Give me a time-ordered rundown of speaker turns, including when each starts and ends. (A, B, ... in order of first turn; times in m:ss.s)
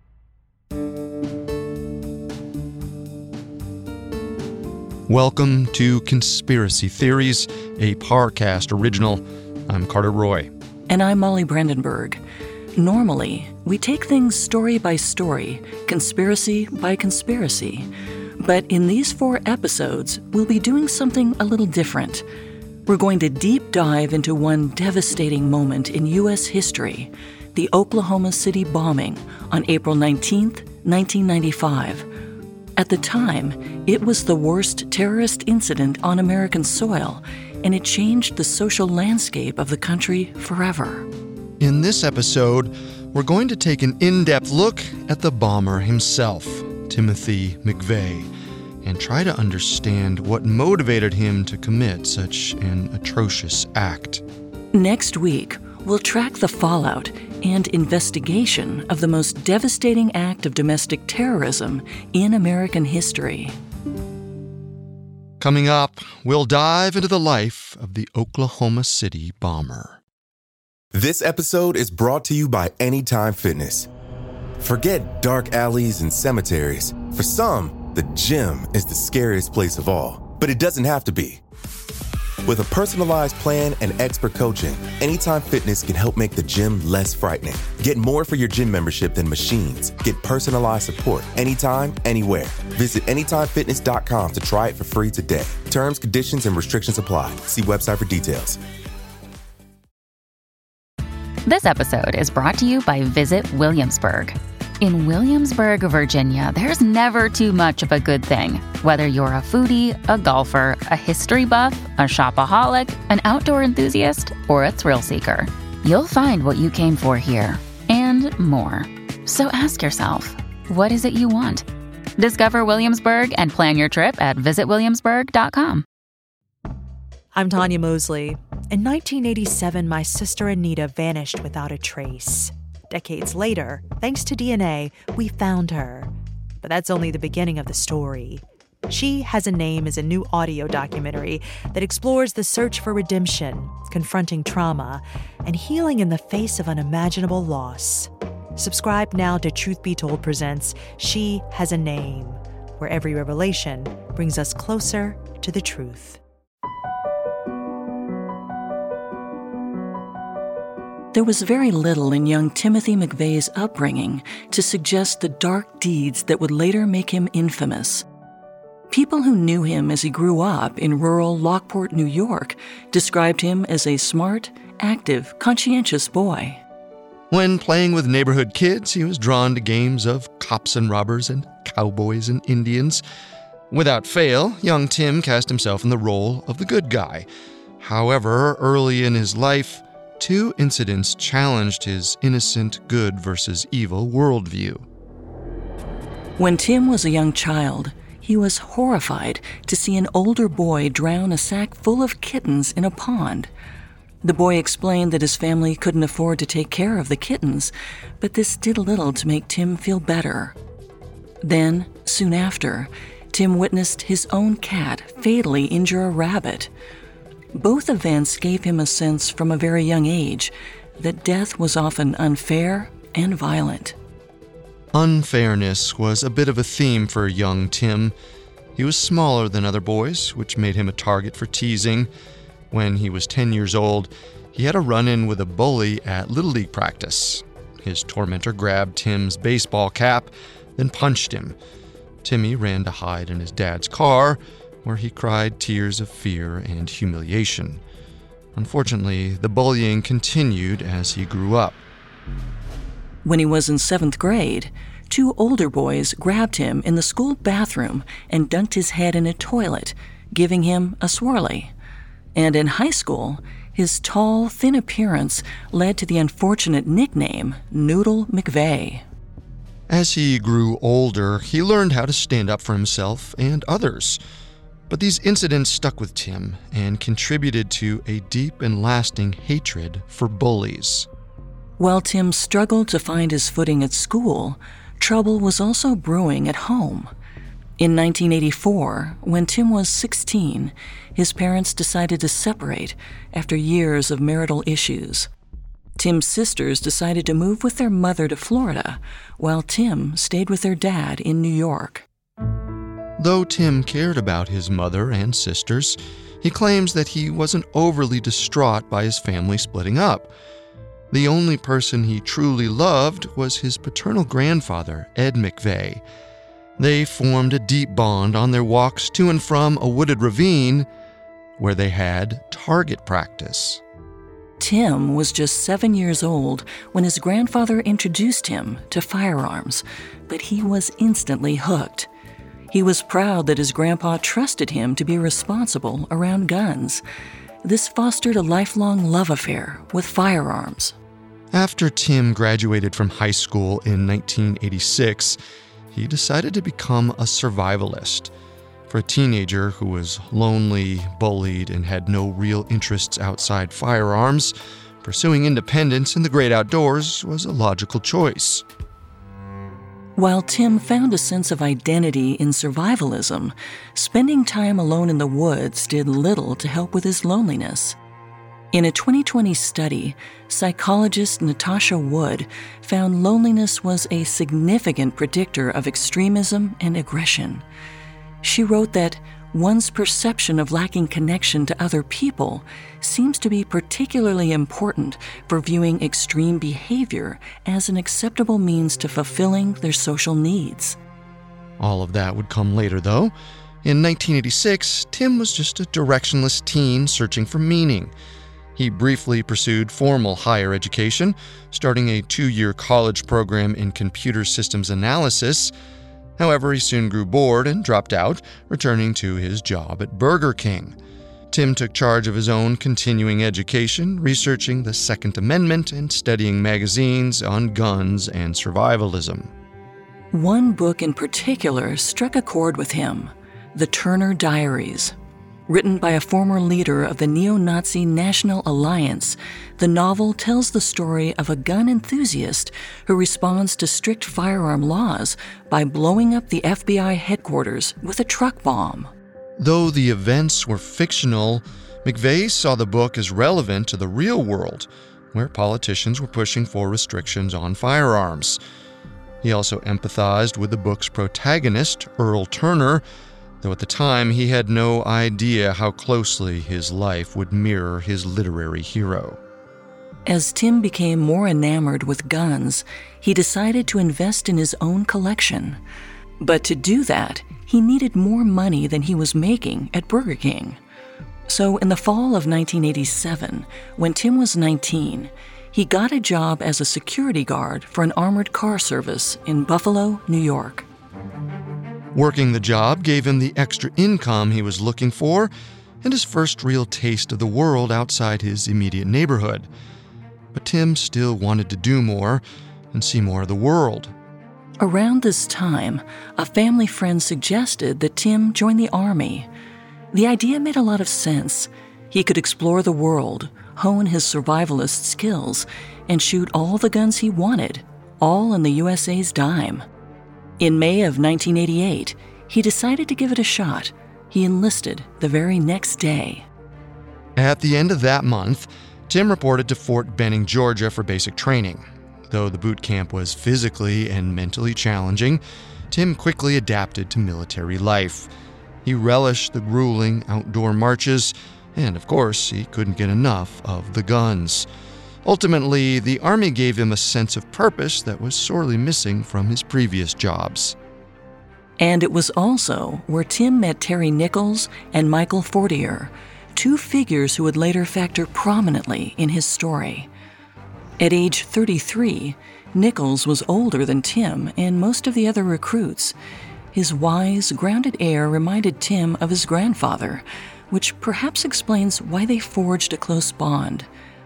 0:05.1-0:10.5 A
0:10.9-0:12.2 B
0:12.8-0:22.2 B
0:22.9-0:32.1 B
0:32.8-0:41.1 B
0:41.6-0:48.3 A
0:48.8-0:54.2 A
0:54.7-1:03.6 B
1:05.4-1:10.0 A
1:10.9-1:13.9 C
1:14.6-1:21.4 C
1:22.4-1:38.6 C
1:41.4-2:01.6 D
2:02.2-2:05.8 D
2:07.3-2:36.2 E
2:41.1-2:48.0 B
2:48.9-2:56.6 B
2:57.3-3:03.0 A
3:03.7-3:07.3 A
3:07.8-3:14.8 A
3:16.4-3:23.5 B
3:24.2-3:30.6 B
3:31.4-3:36.7 B
3:37.5-3:44.0 B
3:44.9-3:48.1 A
3:48.8-3:52.1 A
3:52.7-4:01.6 A
4:02.2-4:07.8 A
4:08.5-4:11.8 A
4:13.2-4:21.7 B
4:22.4-4:29.0 B
4:29.9-4:34.2 A
4:34.9-4:41.1 A
4:41.8-4:47.1 B
4:47.8-4:55.3 B
4:56.0-5:02.1 B
5:03.2-5:10.3 A
5:11.1-5:16.0 A
5:16.8-5:20.9 A
5:21.6-5:23.8 A
5:24.6-5:32.1 B
5:32.7-5:37.0 B
5:37.6-5:41.0 B
5:41.5-5:45.4 A
5:45.9-5:48.3 A
5:48.9-5:58.6 A
6:00.2-6:08.0 B
6:08.7-6:17.6 B
6:18.4-6:31.0 B
6:31.8-6:33.3 A
6:33.8-6:38.1 A
6:38.8-6:45.7 A
6:46.4-6:51.0 A
6:51.5-6:59.5 A
7:00.3-7:05.2 B
7:05.7-7:19.1 B
7:19.6-7:28.6 A
7:29.4-7:33.0 A
7:33.6-7:39.4 A
7:40.3-7:45.8 B
7:46.4-7:50.8 B
7:51.5-8:00.9 B
8:02.1-8:05.5 A
8:06.0-8:09.7 A
8:10.5-8:14.1 A
8:14.8-8:19.5 B
8:20.1-8:29.9 B
8:30.6-8:36.5 B
8:37.4-8:48.3 A
8:48.8-8:54.7 A
8:55.2-9:00.8 A
9:01.8-9:10.1 B
9:11.0-9:16.2 B
9:16.7-9:23.9 B